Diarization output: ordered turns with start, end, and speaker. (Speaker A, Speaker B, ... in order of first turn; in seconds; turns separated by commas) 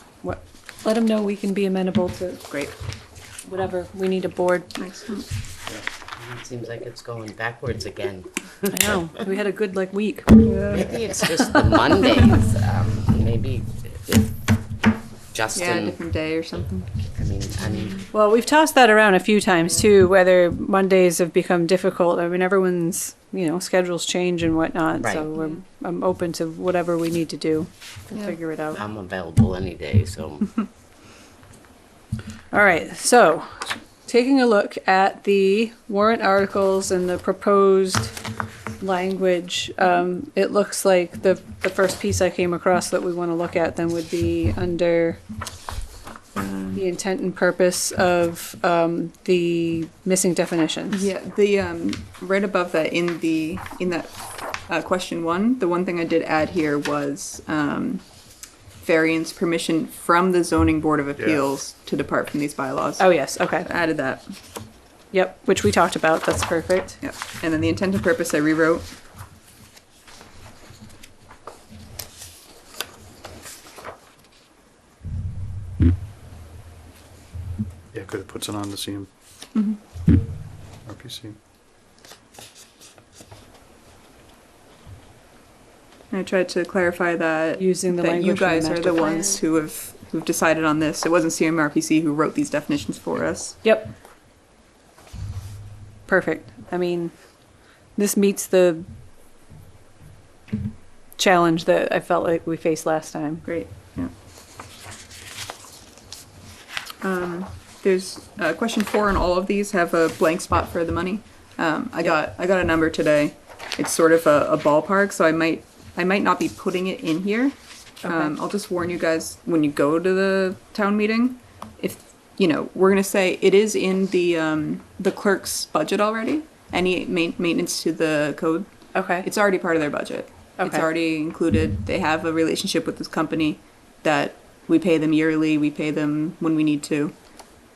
Speaker A: 0.2-2.5, Speaker A: 3.4-4.8, Speaker B: 4.8-5.2, Speaker C: 6.2-8.9, Speaker A: 8.7-10.5, Speaker B: 10.4-10.9, Speaker C: 10.7-14.4, Speaker C: 15.3-16.0, Speaker B: 15.5-16.9, Speaker C: 17.1-18.0, Speaker A: 18.1-28.8, Speaker C: 25.0-25.3, Speaker C: 28.7-30.6, Speaker A: 32.5-38.2, Speaker A: 38.8-45.2, Speaker B: 46.4-46.8, Speaker A: 46.7-51.1, Speaker B: 50.9-58.1, Speaker B: 58.8-64.3, Speaker D: 61.2-61.4, Speaker A: 63.0-63.7, Speaker A: 65.1-67.0, Speaker B: 67.0-68.9, Speaker D: 77.9-79.1, Speaker B: 79.5-79.8, Speaker D: 80.8-81.4, Speaker B: 86.1-93.6, Speaker A: 87.6-89.4, Speaker A: 93.6-93.9, Speaker A: 96.1-97.1, Speaker A: 98.0-98.8, Speaker A: 101.2-103.5, Speaker B: 103.4-104.1, Speaker B: 107.0-128.7, Speaker A: 118.0-118.3, Speaker A: 128.9-129.3, Speaker B: 129.2-137.1, Speaker A: 130.6-130.8